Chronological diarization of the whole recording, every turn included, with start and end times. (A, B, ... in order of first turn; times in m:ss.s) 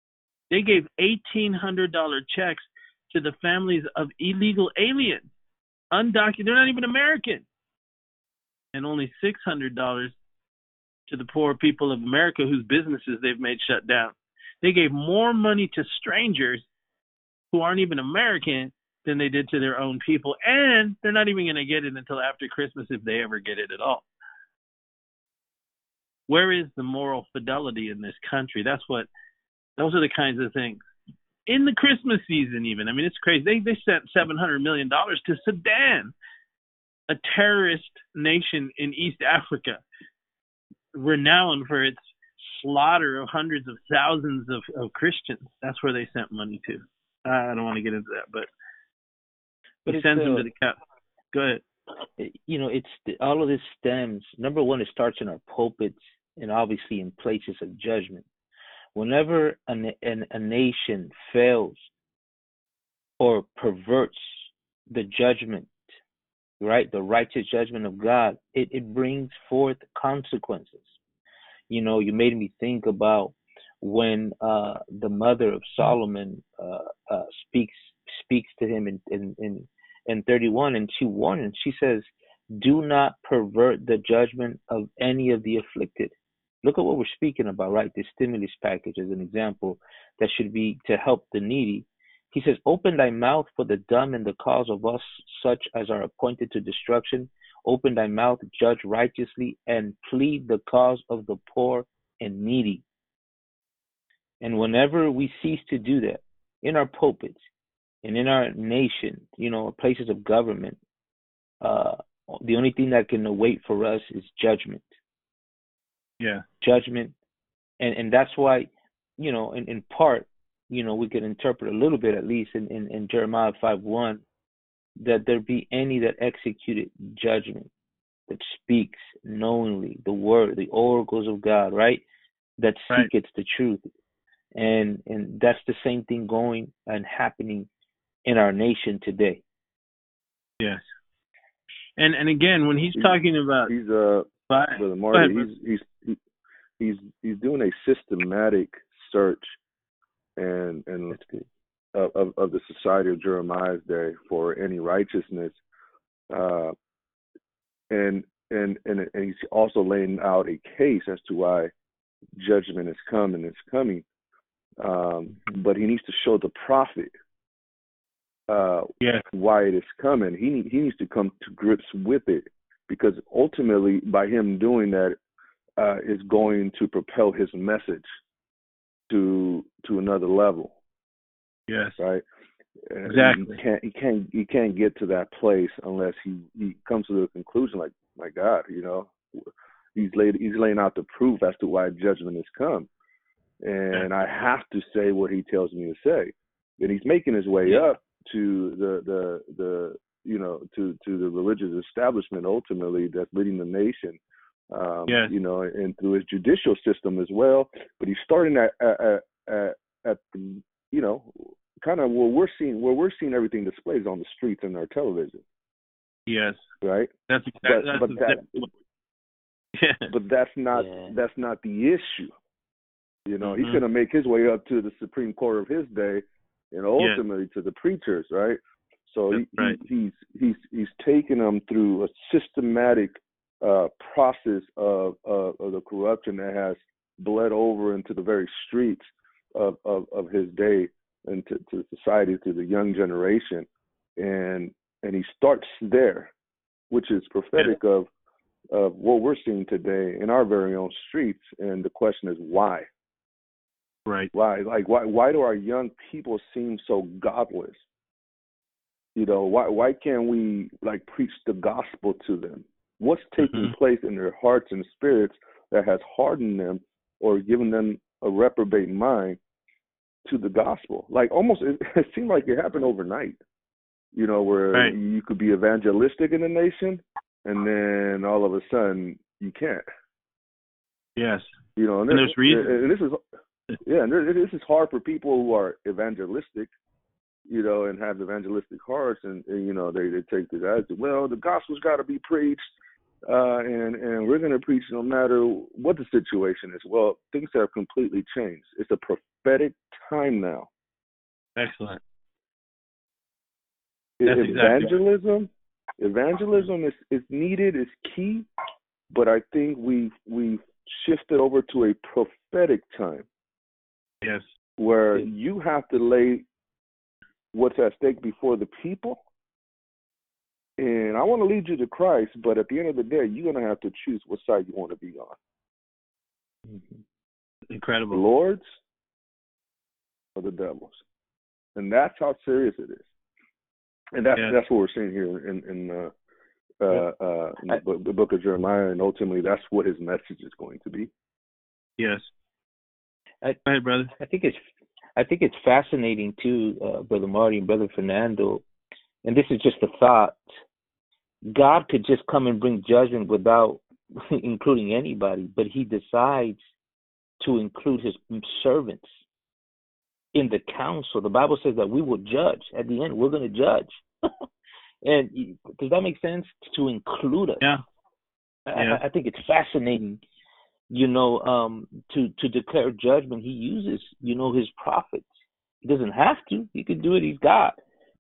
0:00.5-0:05.3 A
0:05.9-0:07.5 A
0:08.7-0:10.2 A
0:11.1-0:16.7 A
0:17.5-0:24.1 A
0:26.3-0:29.1 A
0:29.8-0:30.8 A
0:31.5-0:36.1 A
0:37.1-0:39.8 A
0:40.9-0:48.5 A
0:49.9-0:50.8 A
0:49.9-0:50.5 B
0:51.3-0:51.6 A
0:52.2-0:58.3 B
0:59.0-1:01.9 B
1:03.2-1:05.7 B
1:06.6-1:11.0 B
1:11.7-1:42.8 B
1:44.4-1:47.4 B
1:48.0-1:50.8 B
1:51.6-1:54.9 B
1:56.6-1:57.1 B
1:57.8-2:04.2 B
2:05.0-2:07.7 B
2:08.3-2:12.0 B
2:12.6-2:13.8 B
2:14.6-2:17.7 B
2:18.2-2:19.4 B
2:22.0-2:23.7 A
2:23.7-2:26.2 C
2:24.5-2:25.4 A
2:26.8-2:29.6 C
2:30.4-2:31.2 C
2:31.9-2:35.6 C
2:36.3-2:36.8 C
2:37.9-2:41.7 C
2:42.4-2:44.0 C
2:44.8-2:47.1 C
2:48.5-2:55.2 C
2:55.8-2:58.1 C
2:59.1-3:00.8 C
3:01.7-3:02.0 A
3:02.0-3:02.2 C
3:02.9-3:12.9 C
3:03.1-3:03.6 A
3:13.6-3:24.2 C
3:24.7-3:35.4 C
3:25.1-3:25.3 A
3:36.3-3:36.6 A
3:36.8-3:37.1 C
3:37.3-3:38.7 A
3:37.6-3:38.7 C
3:39.8-3:40.1 A
3:40.1-3:42.3 C
3:40.7-3:41.1 B
3:43.3-4:06.3 C
3:43.4-3:43.8 A
3:49.3-3:49.8 A
4:06.9-4:08.1 C
4:08.7-4:12.9 C
4:14.1-4:14.3 A
4:14.3-4:17.8 C
4:19.2-4:29.4 C
4:23.4-4:23.7 A
4:30.3-4:33.4 C
4:34.1-4:39.8 C
4:41.2-4:41.5 A
4:41.8-4:43.2 C
4:42.1-4:42.8 A
4:43.8-4:46.7 C
4:47.5-4:52.6 C
4:53.3-5:00.7 C
5:01.6-5:02.0 A
5:04.2-5:08.5 C
5:04.3-5:04.9 A
5:09.1-5:13.3 C
5:14.8-5:16.5 C
5:17.5-5:19.2 C
5:20.8-5:25.4 C
5:27.7-5:28.2 A
5:28.1-5:28.6 C
5:30.4-5:31.0 C
5:31.8-5:33.1 C
5:34.1-5:36.1 C
5:36.8-5:41.1 C
5:42.0-5:42.3 A
5:43.7-5:44.1 A
5:44.2-5:44.6 B
5:45.2-5:48.6 B
5:49.2-5:50.4 B
5:51.4-5:56.6 B
5:57.4-5:59.1 B
6:00.3-6:04.3 B
6:05.0-6:07.6 B
6:08.7-6:10.2 B
6:08.8-6:09.0 A
6:10.9-6:15.3 B
6:15.8-6:17.8 B